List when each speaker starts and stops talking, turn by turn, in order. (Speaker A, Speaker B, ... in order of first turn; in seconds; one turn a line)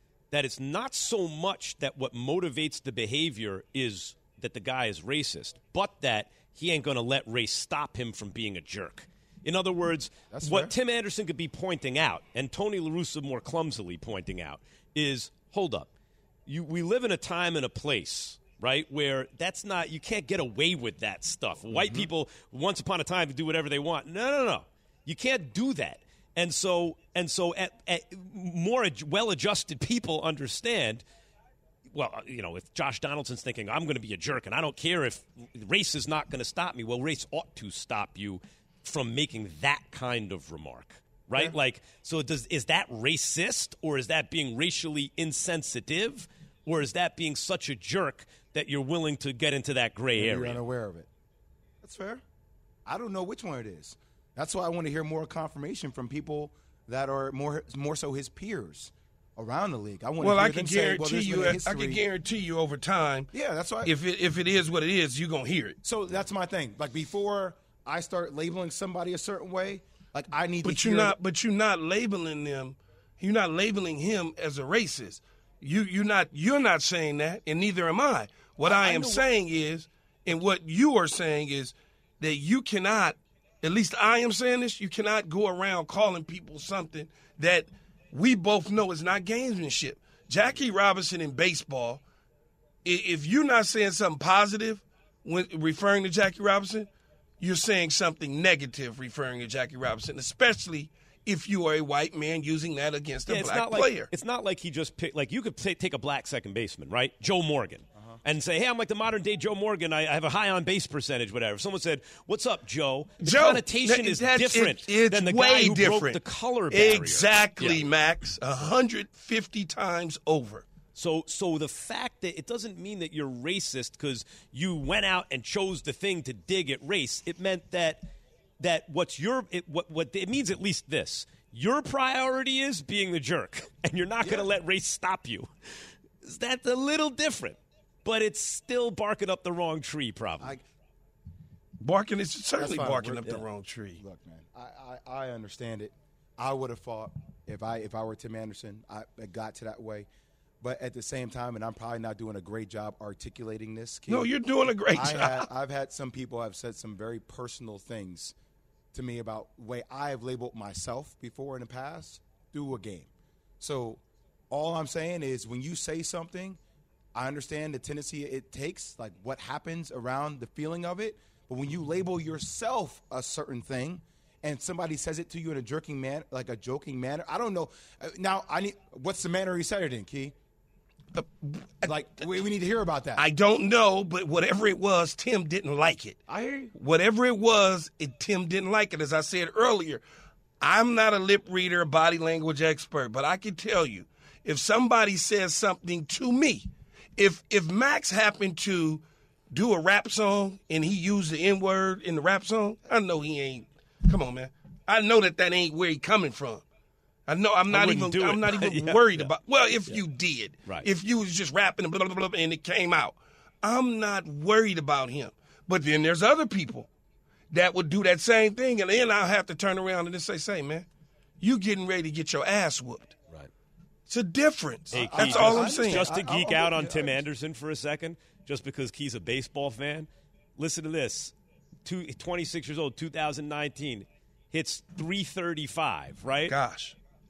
Speaker A: 0.3-15.9
Speaker B: 10.3-10.7
Speaker A: 16.5-31.0
Speaker B: 21.7-22.1
Speaker A: 31.9-50.6
Speaker B: 50.1-51.1
Speaker B: 51.8-52.2
Speaker B: 52.9-62.0
Speaker C: 60.2-63.3
Speaker B: 63.3-63.9
Speaker C: 63.8-65.8
Speaker B: 65.8-71.2
Speaker C: 70.6-92.0
Speaker B: 78.6-79.2
Speaker C: 92.8-96.9
Speaker C: 97.4-104.1
Speaker A: 103.3-117.8
Speaker C: 113.2-120.7
Speaker A: 121.0-128.1
Speaker A: 128.6-135.5
Speaker B: 134.2-134.5
Speaker A: 136.2-140.6
Speaker C: 141.8-144.0
Speaker B: 142.6-143.4
Speaker B: 144.0-150.1
Speaker B: 150.6-154.3
Speaker C: 154.1-155.5
Speaker B: 154.9-158.3
Speaker B: 158.9-166.6
Speaker B: 167.2-180.3
Speaker C: 181.2-182.3
Speaker B: 181.8-183.2
Speaker C: 183.2-186.2
Speaker B: 186.3-186.7
Speaker C: 186.8-190.0
Speaker C: 190.6-206.6
Speaker C: 207.3-216.9
Speaker A: 207.7-209.3
Speaker C: 217.5-220.9
Speaker C: 221.4-223.2
Speaker C: 224.1-226.1
Speaker A: 224.9-231.3
Speaker B: 224.9-227.3
Speaker A: 231.8-236.6
Speaker C: 236.5-236.9